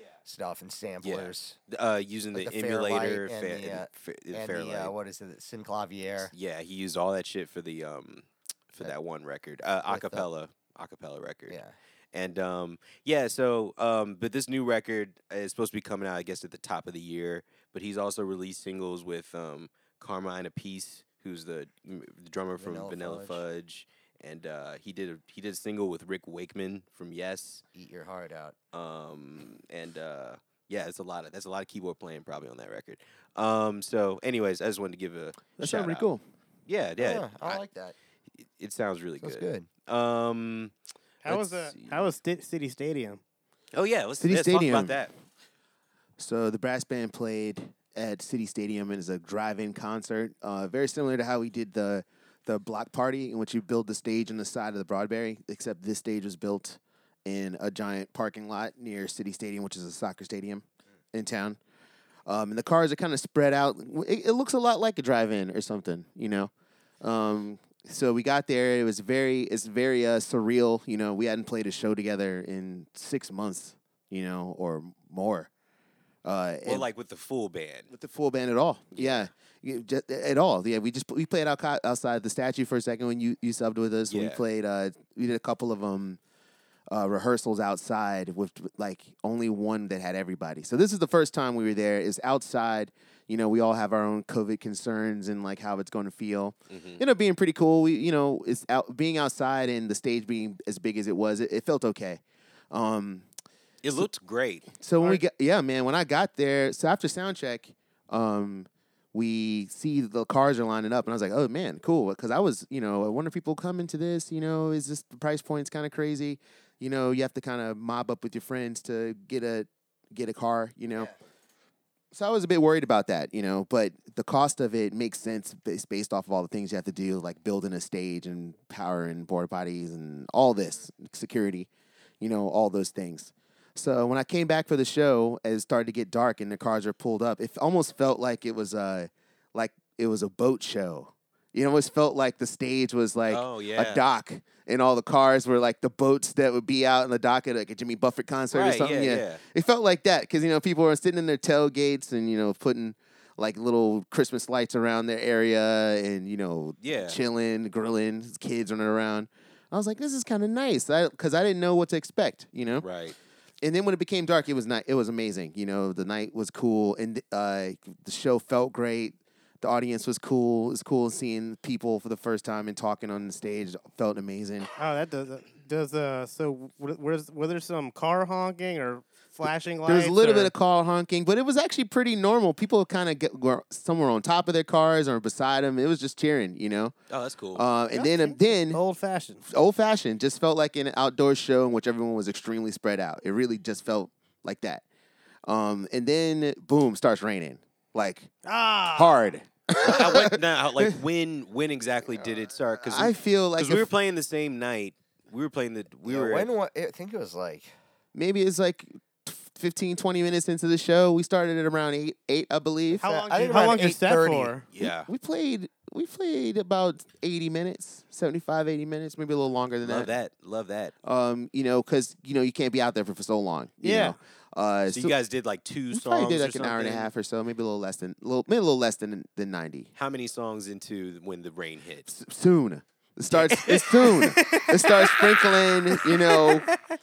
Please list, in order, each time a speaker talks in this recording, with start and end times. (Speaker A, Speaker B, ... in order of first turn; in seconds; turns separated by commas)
Speaker A: 0.2-1.6, Speaker B: 1.0-4.9, Speaker A: 2.3-6.3, Speaker B: 6.3-11.6, Speaker A: 9.9-10.3, Speaker A: 11.5-11.7, Speaker B: 12.1-27.6, Speaker A: 22.6-23.4, Speaker A: 27.7-28.5, Speaker B: 28.7-36.1, Speaker C: 35.6-36.2, Speaker B: 36.7-37.6, Speaker A: 37.0-37.9, Speaker B: 38.6-40.7, Speaker A: 39.2-39.7, Speaker D: 41.2-43.2, Speaker B: 41.3-42.1, Speaker B: 43.7-45.1, Speaker C: 44.2-45.0, Speaker C: 46.2-61.6, Speaker C: 62.3-75.5, Speaker C: 76.2-76.9, Speaker B: 76.6-77.9, Speaker C: 77.9-86.2, Speaker B: 78.9-79.3, Speaker B: 84.1-84.4, Speaker C: 86.9-103.3, Speaker B: 96.7-97.0, Speaker B: 103.8-104.8, Speaker C: 104.8-121.1, Speaker C: 122.1-131.7, Speaker C: 132.2-162.8, Speaker B: 143.3-144.0, Speaker B: 148.5-149.4, Speaker B: 156.8-157.2, Speaker B: 162.8-163.2, Speaker C: 163.6-174.7, Speaker D: 174.8-180.5, Speaker C: 179.8-186.9, Speaker B: 187.1-187.6, Speaker C: 187.5-188.8, Speaker D: 187.9-189.4, Speaker C: 189.5-194.8, Speaker C: 195.4-198.3, Speaker D: 198.4-199.3, Speaker C: 198.9-200.9, Speaker B: 199.8-206.5, Speaker C: 202.8-203.9, Speaker A: 206.1-207.7, Speaker C: 208.1-213.0, Speaker D: 213.0-214.7, Speaker A: 213.0-214.5, Speaker B: 214.7-215.1, Speaker C: 214.8-220.1, Speaker B: 219.8-220.9, Speaker C: 221.0-225.1, Speaker D: 223.8-224.2, Speaker B: 224.9-227.1, Speaker C: 225.9-229.9, Speaker B: 230.0-232.1, Speaker C: 232.1-236.7, Speaker B: 233.3-234.2, Speaker D: 234.0-236.8